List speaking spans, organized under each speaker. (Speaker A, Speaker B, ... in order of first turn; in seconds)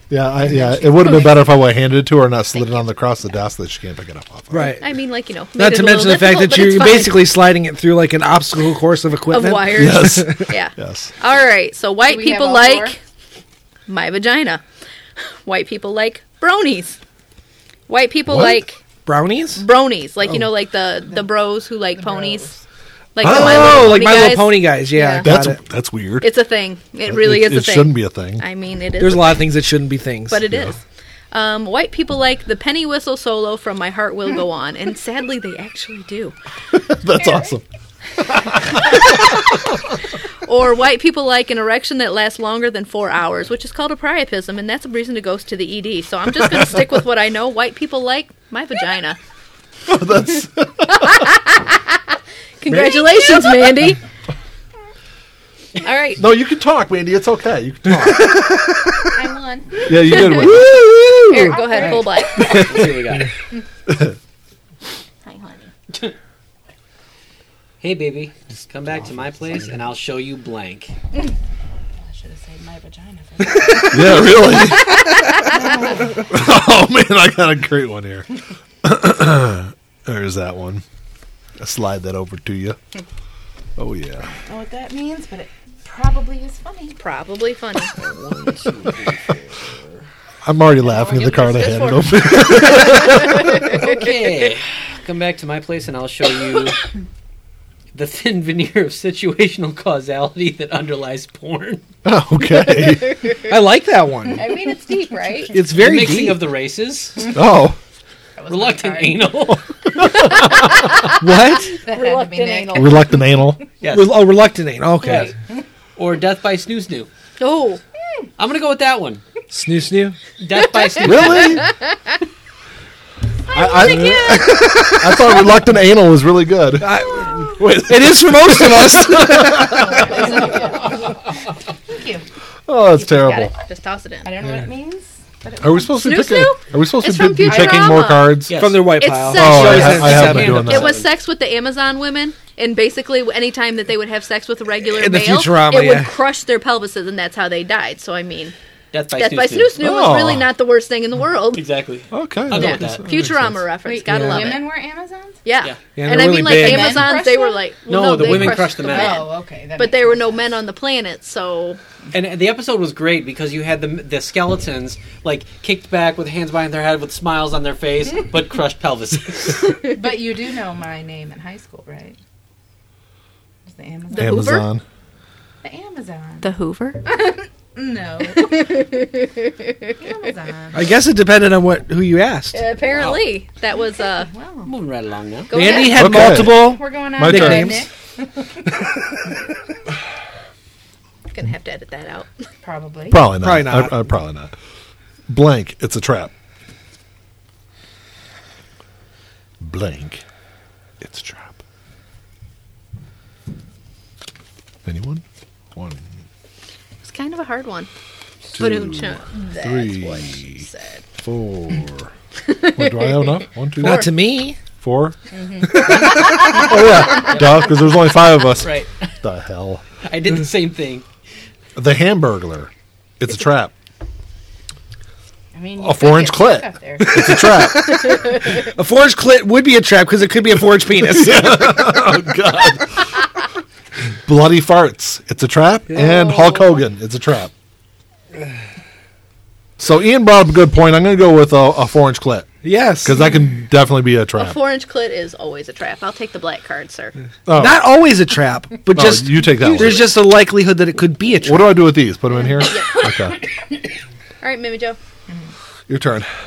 Speaker A: 0.1-4.8, 9.7-11.1, 18.3-18.6, 23.2-24.1, 25.2-26.3, 27.1-28.4, 30.5-30.8, 36.7-37.6, 38.2-39.9, 46.4-46.8, 49.9-51.3, 56.2-59.0, 59.8-61.6, 62.3-62.9, 63.9-64.1, 73.9-75.3, 76.3-80.8, 81.6-82.8, 83.8-84.3, 90.4-93.8, 102.0-103.3, 107.3-107.8, 110.0-110.8, 112.7-113.6, 121.0-121.7, 123.5-126.9, 127.5-130.4, 132.7-133.5, 135.6-138.5, 139.3-141.0, 149.8-150.5, 152.1-153.6, 174.2-174.8, 185.9-187.8, 193.1-194.5, 195.3-196.3, 199.6-200.2, 201.0-201.6, 204.8-205.2, 205.7-206.0, 208.5-210.7, 211.2-212.1, 212.7-214.1, 214.7-215.2, 215.7-219.8, 221.8-223.7, 225.8-228.2, 231.0-233.3, 234.2-237.5, 239.8-244.6, 247.5-247.8, 248.9-250.2, 251.4-253.4, 255.9-256.3
Speaker B: 0.5-1.4, 12.0-13.0, 22.0-22.6, 59.1-60.6, 61.3-62.7, 72.0-74.7, 75.4-76.2, 84.3-87.0, 104.4-105.5, 108.3-109.3, 111.8-113.2, 123.7-124.4, 129.6-132.2, 134.2-136.1, 137.4-138.1, 153.8-155.4, 156.4-157.6, 158.2-160.5, 169.8-172.2, 173.7-174.5, 175.6-176.5, 177.0-178.9, 180.0-180.9, 184.0-184.7, 185.5-188.9, 192.6-193.3, 215.3-216.8, 225.5-228.5, 252.3-253.8, 255.3-255.5
Speaker C: 2.5-3.0, 4.8-7.3, 9.3-13.0, 13.9-14.6, 15.2-17.0, 17.9-18.8, 19.6-22.6, 23.1-25.3, 26.2-29.5, 30.3-30.8, 31.3-36.3, 40.4-49.2, 50.9-52.0, 52.6-54.0, 55.8-56.2, 60.1-60.5, 61.3-62.7, 65.2-65.7, 87.0-87.9, 90.8-93.7, 104.3-105.6, 110.8-113.1, 117.4-117.8, 123.8-124.4, 133.1-134.3, 136.0-138.4, 139.0-148.5, 149.2-151.6, 152.5-154.6, 155.4-161.8, 174.1-174.7, 176.4-177.0, 178.3-180.0, 182.5-184.3, 185.5-186.2, 191.3-192.3, 207.0-207.9, 208.6-211.0, 212.4-213.4, 244.3-247.1, 252.6-253.1, 254.4-255.0
Speaker D: 4.5-4.9, 5.6-10.5, 19.1-19.6, 23.2-25.6, 29.0-30.5, 52.7-53.5, 58.0-58.6, 73.6-74.0, 103.5-104.4, 105.5-106.4, 111.2-111.8, 113.9-115.3, 119.5-120.2, 124.5-125.2, 126.8-130.1, 138.5-140.7, 144.8-146.1, 154.1-154.6, 155.9-157.2, 180.7-182.6, 185.5-187.9, 193.4-194.0, 213.8-214.6, 227.0-231.9, 235.9-236.5, 242.6-243.2, 247.5-251.8
Speaker E: 62.5-63.3, 67.8-70.9, 88.0-90.0, 93.7-96.8, 97.9-101.8, 105.7-107.3, 108.5-109.6, 113.8-114.3, 115.0-115.3, 116.0-117.1, 118.4-119.2, 120.4-121.6, 138.5-139.0, 139.6-141.1, 148.9-149.7, 151.5-153.0, 157.9-159.2, 162.1-169.8, 184.6-185.5, 217.1-217.8, 218.6-218.9, 220.1-221.1